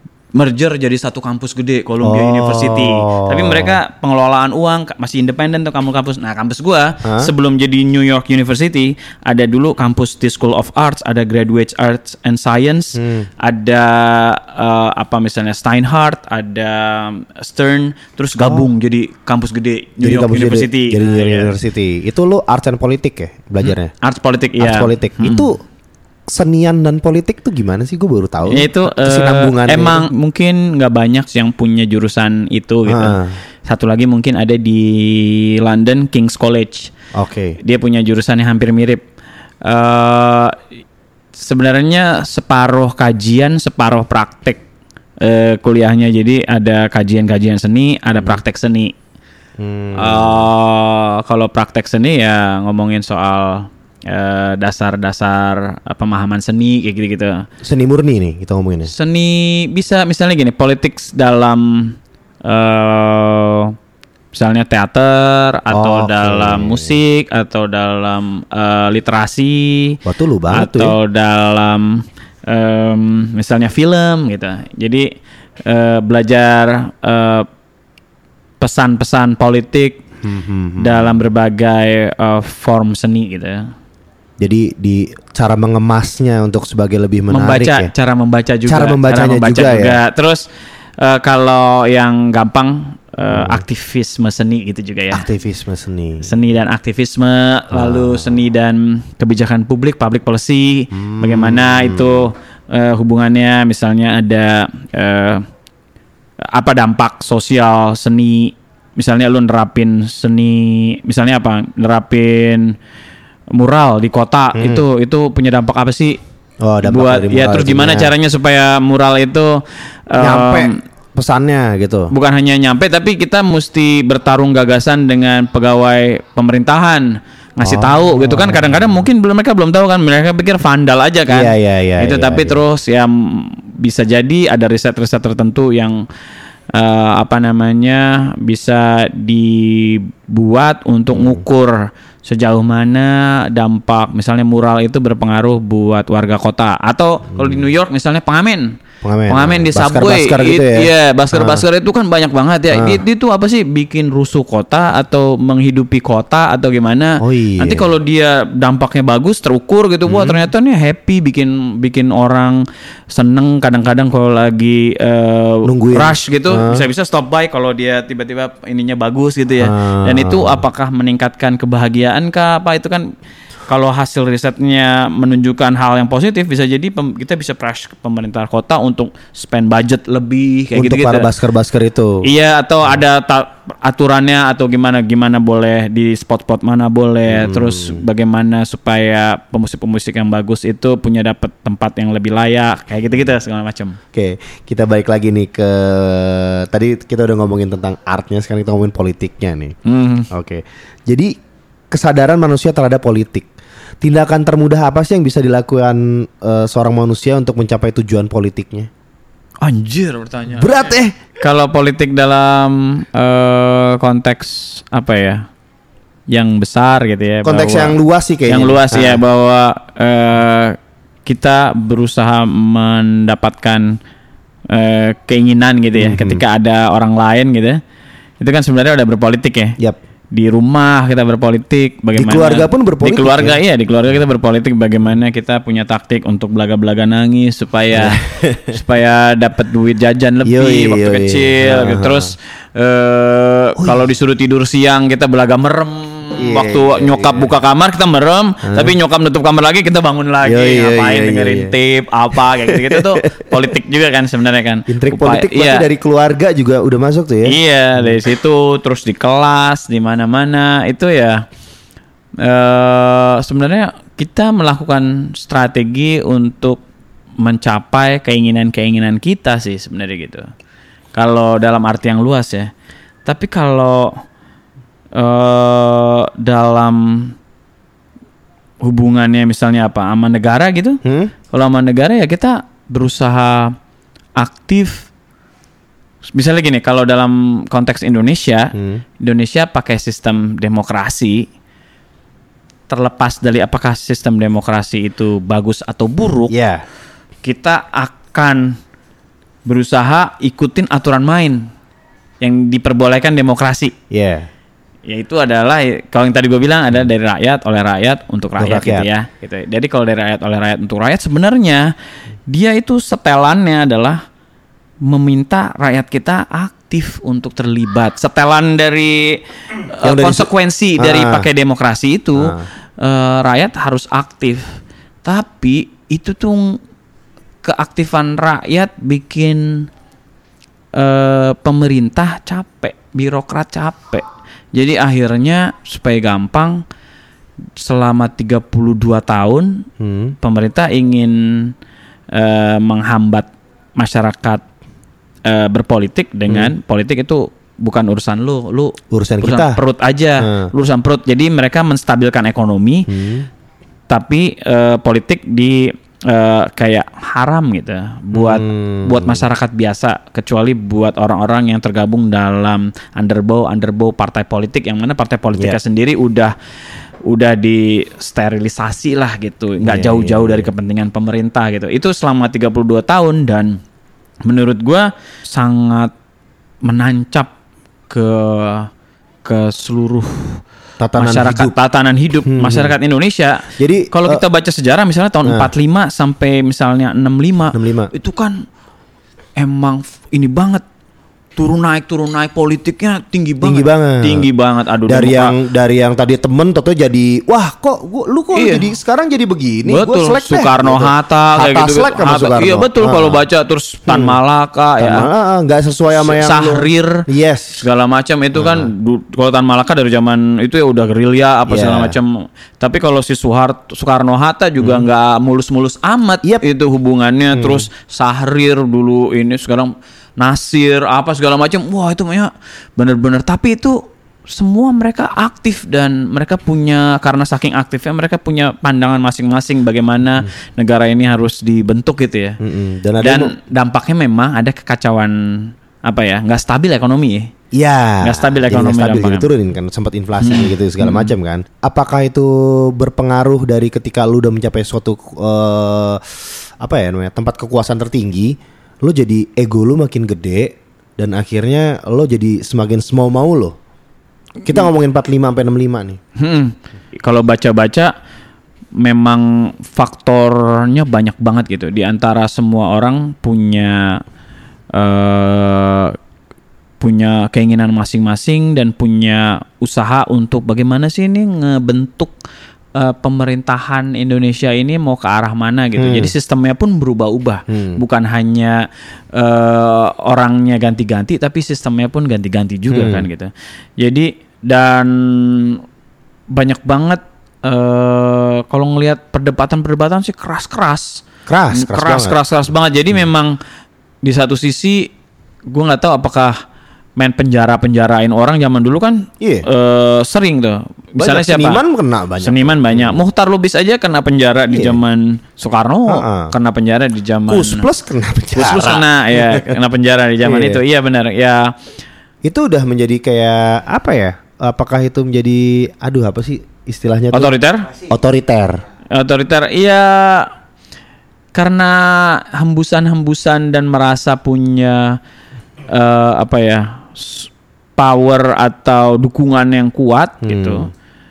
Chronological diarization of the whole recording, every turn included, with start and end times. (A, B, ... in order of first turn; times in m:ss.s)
0:00.4-0:21.5 A
0:02.0-0:03.8 B
0:07.0-0:07.3 B
0:13.0-0:13.3 B
0:18.4-0:18.7 B
0:20.0-0:23.9 B
0:23.6-0:25.5 A
0:24.6-0:25.6 B
0:26.3-0:30.1 B
0:28.5-0:36.9 A
0:32.9-0:33.3 B
0:37.1-0:37.6 B
0:37.6-0:39.0 A
0:39.6-0:40.6 A
0:41.4-0:44.6 A
0:45.2-0:49.0 A
0:49.6-0:50.5 B
0:50.0-0:57.4 A
0:57.6-0:58.9 B
0:58.9-1:03.8 A
1:04.3-1:10.0 A
1:05.7-1:07.0 B
1:10.0-1:11.0 B
1:10.5-1:15.1 A
1:15.7-1:17.5 A
1:18.6-1:20.0 A
1:20.2-1:21.3 B
1:20.8-1:23.7 A
1:24.4-1:27.9 B
1:27.3-1:30.4 A
1:28.7-1:30.0 B
1:31.0-1:35.2 A
1:33.2-1:33.6 B
1:35.1-1:36.3 B
1:36.2-1:45.4 A
1:37.7-1:38.4 B
1:40.9-1:42.3 B
1:46.5-1:52.7 A
1:53.6-1:56.2 A
1:54.6-1:54.8 B
1:56.6-1:58.1 B
1:56.8-2:00.8 A
2:00.2-2:02.1 B
2:02.1-2:16.0 A
2:07.6-2:09.1 B
2:11.3-2:12.6 B
2:16.7-2:53.1 A
2:21.1-2:21.4 B
2:27.3-2:27.7 B
2:29.0-2:31.7 B
2:32.7-2:33.0 B
2:37.2-2:37.9 B
2:40.1-2:40.5 B
2:45.6-2:46.8 B
2:49.6-2:50.6 B
2:53.7-3:01.3 A
3:00.7-3:02.2 B
3:02.2-3:14.0 A
3:07.3-3:08.1 B
3:14.1-3:19.8 B
3:19.8-3:20.3 A
3:20.3-3:21.3 B
3:21.9-3:23.5 B
3:24.0-3:28.9 B
3:29.6-3:35.5 A
3:30.5-3:31.2 B
3:36.3-3:38.0 A
3:37.4-3:39.2 B
3:38.5-3:44.0 A
3:44.7-3:47.8 A
3:46.0-3:46.4 B
3:48.4-3:49.8 A
3:50.3-4:15.9 A
3:52.2-3:53.6 B
3:57.9-3:58.8 B
4:00.4-4:02.3 B
4:03.8-4:04.1 B
4:06.4-4:07.5 B
4:08.7-4:09.0 B
4:10.4-4:11.7 B
4:12.7-4:13.2 B
4:14.9-4:18.2 B
4:17.5-4:21.4 A
4:22.4-4:26.8 A
4:27.4-4:30.5 A
4:31.2-4:32.7 A
4:33.3-4:34.2 A
4:35.2-4:37.4 A
4:38.8-4:41.0 A
4:41.0-4:41.3 B
4:41.5-4:43.8 A
4:44.4-4:45.1 A
4:46.4-4:51.5 A
4:48.7-4:49.0 B
4:52.9-4:56.5 A
4:56.5-4:56.8 B
4:57.4-4:58.8 A
4:59.7-5:01.7 A
5:02.4-5:03.9 A
5:04.1-5:04.5 B
5:05.1-5:11.9 A
5:08.6-5:09.1 B
5:12.5-5:14.2 A
5:15.0-5:24.7 A
5:20.0-5:21.5 B
5:22.4-5:22.7 B
5:25.2-5:26.8 A
5:27.6-5:29.9 A
5:31.0-5:36.8 A
5:37.8-5:39.8 A
5:40.0-5:40.4 B
5:40.4-5:41.7 A
5:42.3-5:44.6 A
5:45.5-5:53.1 A
5:49.1-5:49.8 B
5:50.4-5:50.7 B
5:53.1-5:53.5 B
5:54.1-6:06.5 A
5:58.3-5:59.4 B
6:07.3-6:13.8 A
6:09.8-6:10.7 B
6:14.5-6:16.1 A
6:16.8-6:17.5 A
6:18.1-6:18.9 A
6:19.4-6:20.6 A
6:21.0-6:21.7 B
6:21.2-6:28.7 A
6:22.5-6:22.9 B
6:23.8-6:24.4 B
6:25.4-6:25.7 B
6:27.7-6:28.1 B
6:29.6-6:30.8 A
6:31.6-6:35.6 A
6:33.6-6:34.5 B
6:35.1-6:43.4 B
6:38.5-6:38.9 A
6:39.9-6:45.3 A
6:44.1-6:44.4 B
6:45.0-6:47.8 B
6:46.1-6:47.2 A
6:47.8-7:04.0 A
6:48.6-6:48.9 B
6:51.7-6:52.2 B
6:54.8-6:55.0 B
6:57.5-6:57.9 B
7:04.5-7:12.6 A
7:12.6-7:13.5 B
7:13.2-7:17.5 A
7:17.7-7:33.8 B
7:18.2-7:19.5 A
7:20.4-7:21.3 A
7:34.6-7:36.2 B
7:36.4-7:38.1 A
7:39.0-7:44.2 A
7:44.9-7:46.2 A
7:47.0-7:52.4 A
7:53.0-8:05.8 A
7:56.0-7:56.3 B
7:57.7-7:58.0 B
8:02.9-8:03.3 B
8:06.5-8:13.6 A
8:11.5-8:12.4 B
8:14.2-8:15.1 A
8:15.7-8:16.6 A
8:17.2-8:21.8 A
8:19.4-8:19.7 B
8:21.2-8:23.2 B
8:22.4-8:27.9 A
8:24.7-8:25.0 B
8:26.1-8:26.5 B
8:27.5-8:29.7 B
8:28.6-8:31.8 A
8:30.4-8:30.8 B
8:32.4-8:37.5 B
8:37.3-8:37.9 A
8:38.1-8:38.8 B
8:39.1-8:40.5 A
8:41.5-8:45.2 A
8:45.9-8:50.9 A
8:50.4-8:50.9 B